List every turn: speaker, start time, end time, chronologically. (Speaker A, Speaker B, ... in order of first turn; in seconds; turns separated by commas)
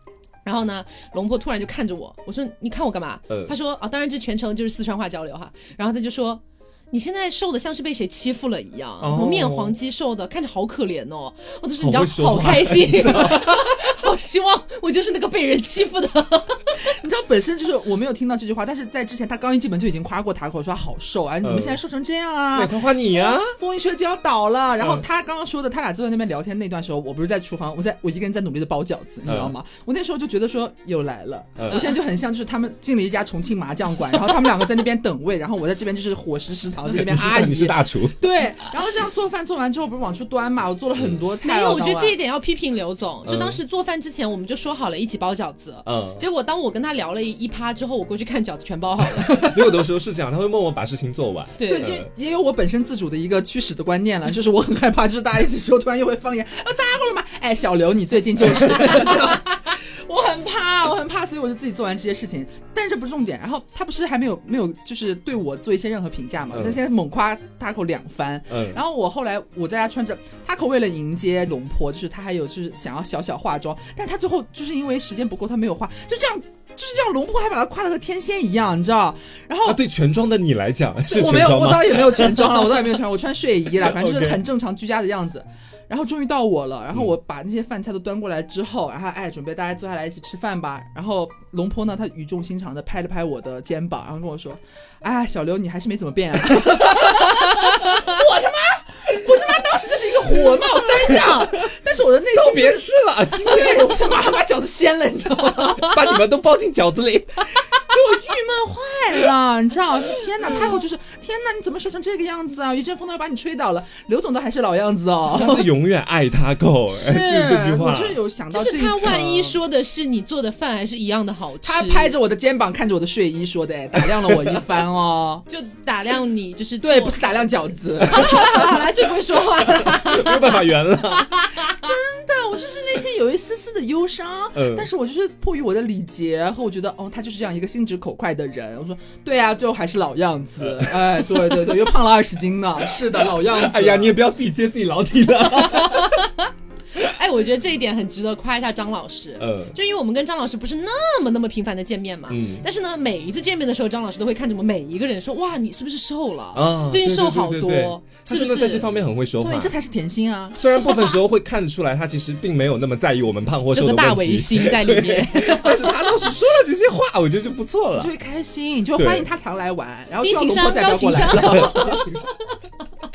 Speaker A: 0.4-16.8, Speaker B: 3.3-3.5, Speaker B: 9.0-9.8, Speaker B: 11.8-13.8, Speaker C: 16.8-42.2, Speaker B: 21.4-21.8, Speaker B: 22.5-23.6, Speaker B: 29.2-29.5, Speaker B: 31.6-31.9, Speaker B: 36.9-38.3, Speaker A: 41.4-49.5, Speaker B: 43.2-43.6, Speaker B: 45.9-46.2, Speaker C: 49.2-49.8, Speaker B: 49.4-52.1, Speaker A: 51.6-51.9, Speaker C: 51.6-79.8, Speaker B: 66.5-66.8, Speaker B: 68.5-68.8, Speaker B: 79.6-82.7, Speaker C: 81.1-106.0, Speaker B: 83.8-84.4, Speaker B: 101.1-101.7, Speaker B: 102.3-104.1, Speaker B: 105.6-107.5, Speaker C: 107.8-115.7, Speaker B: 115.2-118.2, Speaker C: 116.9-119.6, Speaker A: 118.5-122.2, Speaker C: 121.6-125.4, Speaker B: 124.0-124.6, Speaker A: 125.5-127.5, Speaker C: 126.8-128.9, Speaker A: 128.0-131.7, Speaker B: 129.6-131.7, Speaker C: 131.7-144.2, Speaker B: 134.5-134.9, Speaker B: 140.6-141.7, Speaker B: 143.1-146.2, Speaker A: 145.5-158.9, Speaker B: 149.4-149.8, Speaker B: 152.3-152.7, Speaker B: 156.5-159.7, Speaker C: 159.4-160.6, Speaker B: 160.6-168.1, Speaker A: 163.7-166.1, Speaker C: 168.0-172.3, Speaker B: 168.9-169.3, Speaker A: 170.2-172.0, Speaker B: 171.3-171.7